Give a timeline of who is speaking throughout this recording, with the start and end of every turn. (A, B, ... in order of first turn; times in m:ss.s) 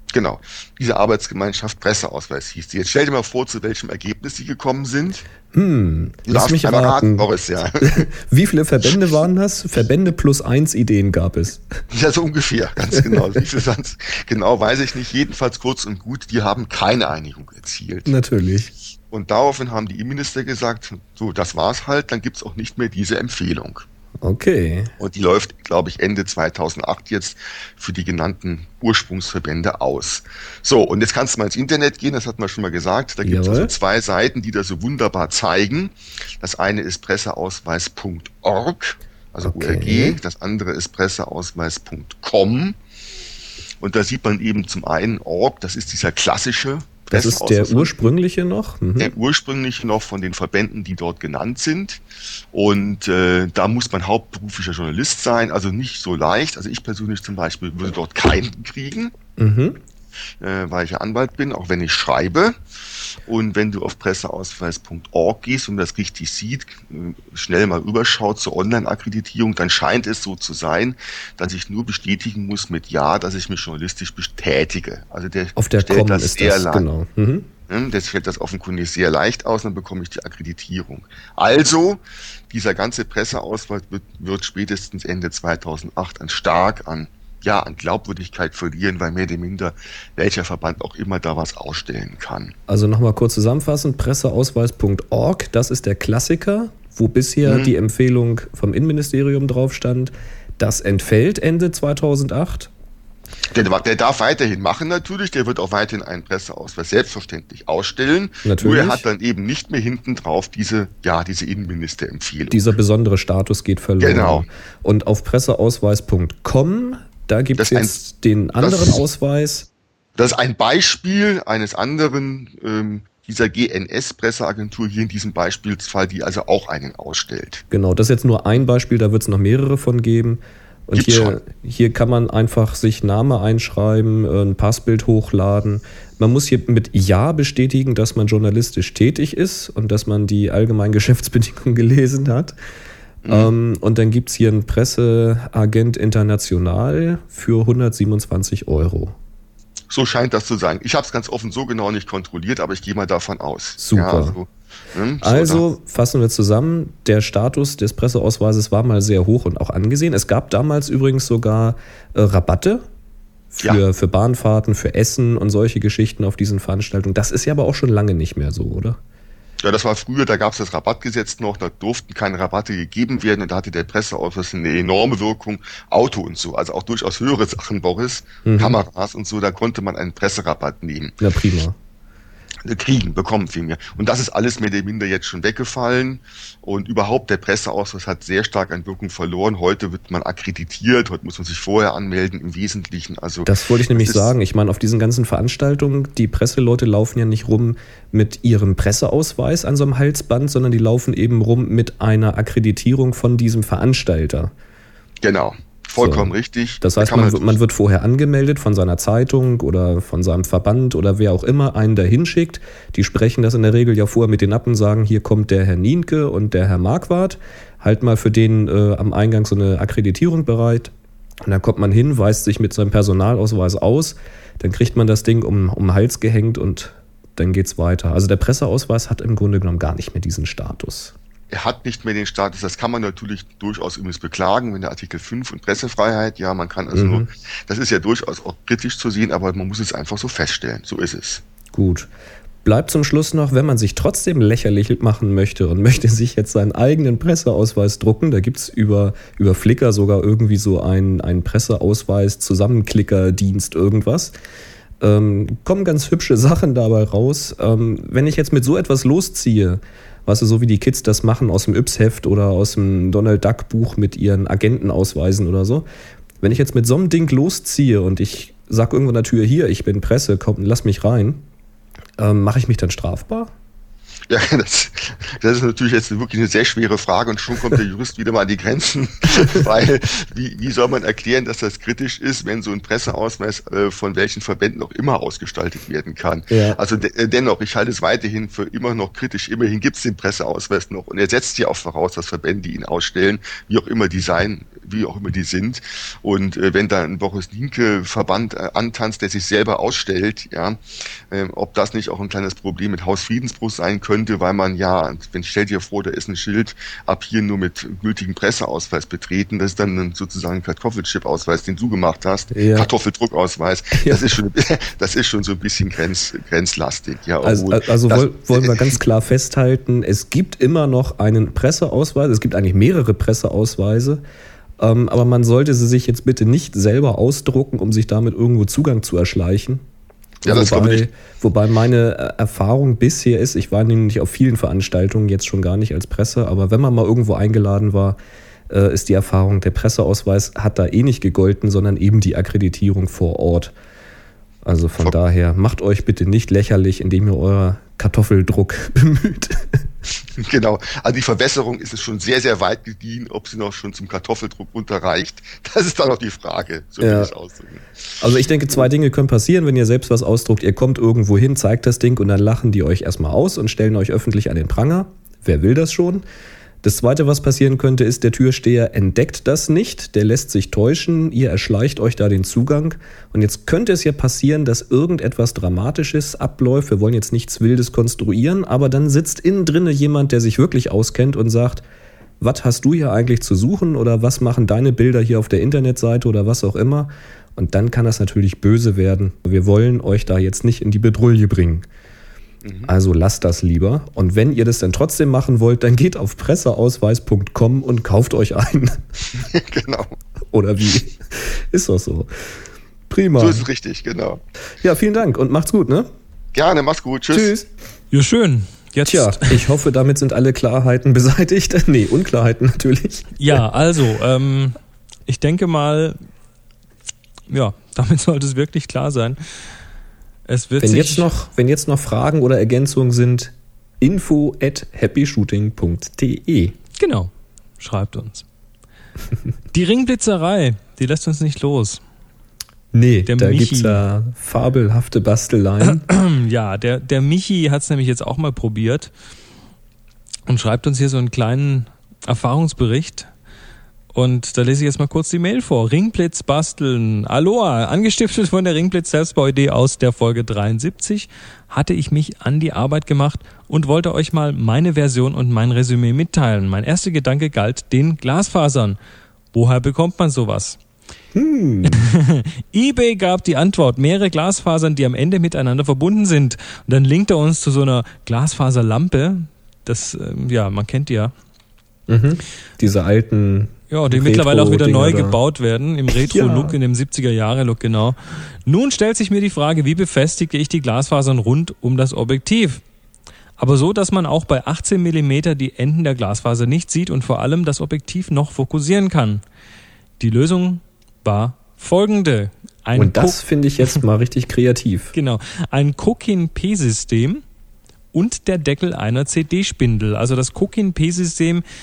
0:00.1-0:05.2 A
0:05.5-0:07.3 B
0:06.3-0:08.1 A
0:07.8-0:11.7 B
0:11.9-0:18.1 A
0:13.0-0:13.4 B
0:18.1-0:18.7 B
0:19.1-0:23.9 A
0:24.2-0:24.9 B
0:25.0-0:42.8 A
0:33.2-0:33.7 B
0:39.4-0:40.2 B
0:43.8-0:48.0 A
0:47.1-0:49.1 B
0:49.0-0:52.0 A
0:52.5-0:59.1 A
0:59.4-0:59.8 B
1:00.4-1:02.6 A
1:03.3-1:16.9 A
1:15.6-1:17.5 B
1:17.7-1:32.5 A
1:32.7-1:42.7 B
1:37.4-1:37.7 A
1:43.5-1:52.6 A
1:48.4-1:49.0 B
1:52.5-1:59.7 B
1:54.0-1:54.5 A
1:57.6-1:58.0 A
1:58.6-1:59.0 A
2:00.2-2:07.6 A
2:07.7-2:22.6 B
2:11.0-2:11.4 A
2:23.2-2:23.5 A
2:23.3-2:29.2 B
2:29.9-2:35.6 A
2:33.8-2:34.4 B
2:35.2-2:42.8 B
2:43.5-2:49.0 B
2:49.6-3:01.2 A
2:58.4-2:58.8 B
3:01.2-3:01.8 B
3:02.6-3:14.3 A
3:13.5-3:24.5 B
3:25.2-3:27.6 A
3:26.0-3:40.9 B
3:41.4-3:51.1 B
3:51.5-4:01.4 A
3:56.9-3:57.3 B
4:01.7-4:02.1 B
4:02.6-4:14.3 B
4:15.0-4:25.9 B
4:26.4-4:31.4 B
4:32.2-4:33.5 B
4:34.3-5:00.8 A
4:46.5-4:46.8 B
5:01.3-5:19.0 A
5:12.5-5:12.9 B
5:14.0-5:14.3 B
5:17.4-5:24.2 B
5:24.8-5:29.8 B
5:30.4-5:38.2 B
5:30.4-5:31.1 A
5:38.7-5:43.7 B
5:44.6-5:49.9 B
5:50.4-5:57.8 A
5:57.0-5:57.3 B
5:58.2-6:06.2 B
6:06.8-6:21.8 B
6:22.4-6:31.9 B
6:32.6-6:32.9 A
6:32.8-6:39.0 B
6:39.4-6:40.1 A
6:40.5-6:43.6 B
6:43.4-6:44.4 A
6:44.8-6:46.1 B
6:46.5-6:47.5 A
6:47.3-6:47.7 B
6:48.1-6:49.6 C
6:49.1-6:53.6 B
6:53.4-6:56.2 C
6:57.5-6:59.4 C
7:00.5-7:01.3 C
7:00.8-7:06.8 B
7:07.0-7:08.5 C
7:09.7-7:12.0 C
7:12.9-7:16.0 B
7:13.3-7:14.0 C
7:15.9-7:19.1 C
7:20.5-7:23.3 C
7:24.1-7:39.0 C
7:39.5-7:40.8 C
7:41.4-7:42.1 B
7:41.8-7:51.3 C
7:52.1-7:55.4 B
7:53.9-8:02.8 C
7:56.1-7:56.8 B
8:03.6-8:09.4 C
8:10.2-8:13.4 C
8:13.0-8:15.1 B
8:15.1-8:17.4 C
8:18.1-8:21.6 C